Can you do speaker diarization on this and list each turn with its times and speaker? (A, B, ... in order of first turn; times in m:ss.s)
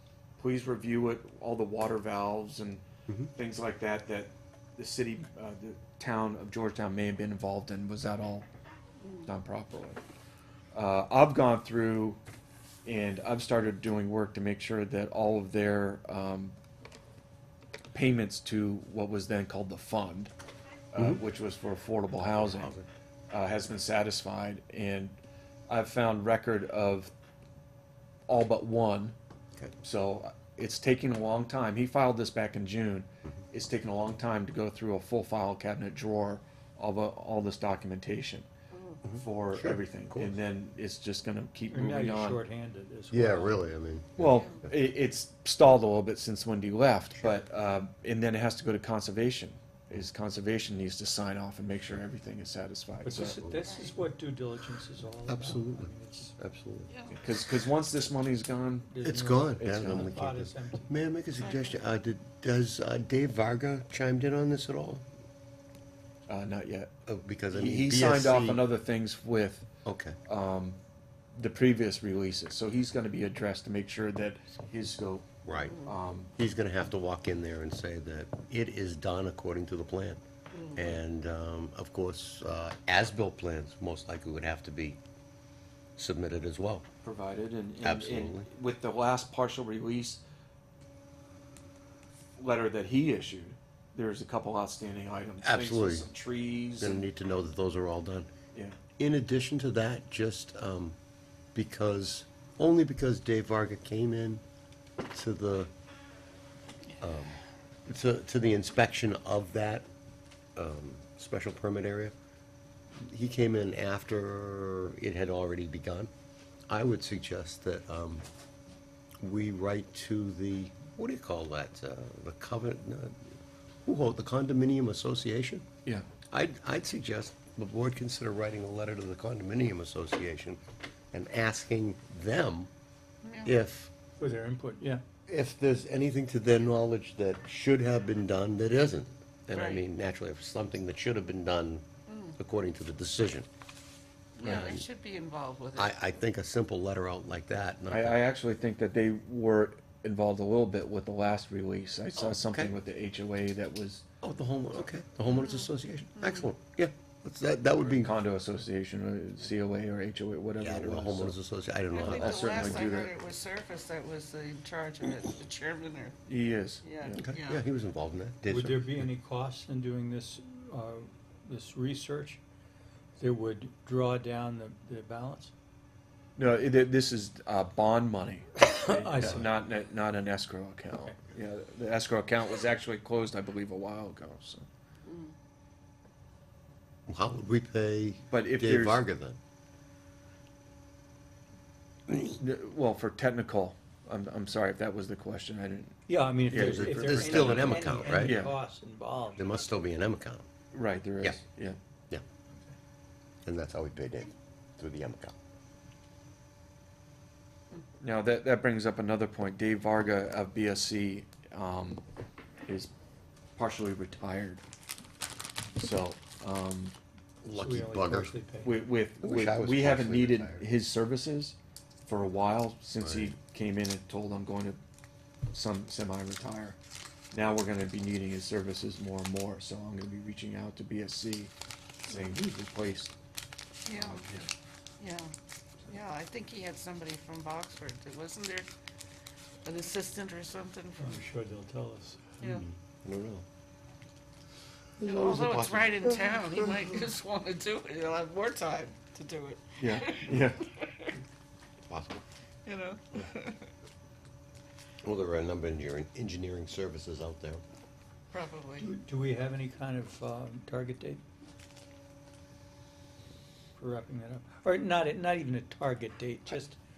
0:00.4-0:08.5 A
0:09.2-0:10.0 A
0:10.7-0:12.2 A
0:12.8-0:16.6 A
0:17.9-0:20.3 A
0:20.9-0:22.7 A
0:22.4-0:22.9 B
0:23.3-0:25.2 A
0:25.7-0:27.1 A
0:28.3-0:29.1 A
0:29.8-0:38.5 A
0:38.7-0:39.0 C
0:39.0-0:40.4 B
0:39.1-0:42.4 A
0:41.7-0:43.6 D
0:43.1-0:44.7 B
0:44.2-0:53.4 A
0:53.0-0:56.4 D
0:53.5-0:54.0 C
0:55.3-0:56.9 B
0:56.9-0:57.2 C
0:57.2-0:58.9 A
0:58.9-1:00.9 D
0:59.0-1:05.0 B
0:59.6-1:00.2 A
1:01.4-1:01.8 C
1:06.3-1:06.9 A
1:07.0-1:08.6 B
1:07.5-1:09.7 A
1:09.8-1:10.2 B
1:10.2-1:10.8 A
1:11.3-1:16.3 A
1:15.4-1:15.8 B
1:16.4-1:20.2 B
1:20.5-1:20.9 C
1:20.7-1:25.0 B
1:26.0-1:26.8 B
1:27.0-1:30.2 A
1:27.8-1:28.5 B
1:32.4-1:37.1 A
1:35.4-1:36.1 B
1:36.8-1:38.3 B
1:39.0-1:41.0 B
1:41.5-1:44.4 B
1:45.0-1:45.7 B
1:47.0-1:49.8 B
1:50.6-1:52.1 B
1:53.0-1:56.1 B
1:56.7-1:58.2 B
1:59.2-2:03.3 B
2:03.8-2:05.6 B
2:06.3-2:10.6 B
2:11.1-2:12.7 B
2:13.2-2:13.5 C
2:13.4-2:13.9 B
2:14.2-2:15.0 D
2:15.3-2:21.8 B
2:19.5-2:19.8 C
2:22.1-2:22.3 C
2:22.4-2:23.5 B
2:24.4-2:25.9 C
2:24.4-2:24.8 B
2:24.4-2:24.8 A
2:25.7-2:28.2 B
2:27.9-2:34.0 A
2:32.2-2:32.8 B
2:34.2-2:38.1 B
2:35.3-2:35.7 C
2:36.2-2:36.4 C
2:37.8-2:41.4 A
2:40.6-2:42.9 B
2:41.9-2:46.2 C
2:42.0-2:43.1 A
2:46.3-2:47.3 A
2:46.8-2:47.6 C
2:47.2-2:49.1 B
2:48.5-2:52.4 D
2:53.2-2:55.5 D
2:56.4-3:04.7 A
2:58.8-2:59.5 D
3:05.0-3:05.3 C
3:07.1-3:09.4 B
3:08.3-3:09.0 A
3:12.2-3:18.5 A
3:16.1-3:19.4 D
3:16.5-3:18.4 B
3:19.4-3:20.5 B
3:20.7-3:21.8 A
3:23.4-3:25.3 B
3:28.0-3:32.0 A
3:33.6-3:34.6 A
3:35.8-3:36.9 A
3:37.4-3:38.3 B
3:37.5-3:38.8 D
3:38.6-3:44.8 A
3:39.2-3:40.6 B
3:43.0-3:43.3 B
3:45.5-3:46.8 A
3:47.3-3:51.5 A
3:52.0-3:53.1 A
3:53.8-3:54.2 C
3:53.9-3:54.5 A
3:55.0-3:55.3 C
3:55.9-3:58.7 C
3:59.6-4:01.2 C
4:01.0-4:02.4 D
4:02.4-4:03.4 B
4:05.0-4:06.4 B
4:05.0-4:11.1 C
4:09.8-4:10.7 A
4:11.9-4:12.2 B
4:12.6-4:13.7 C
4:15.0-4:17.6 B
4:18.3-4:18.9 C
4:18.8-4:21.2 D
4:23.8-4:26.8 D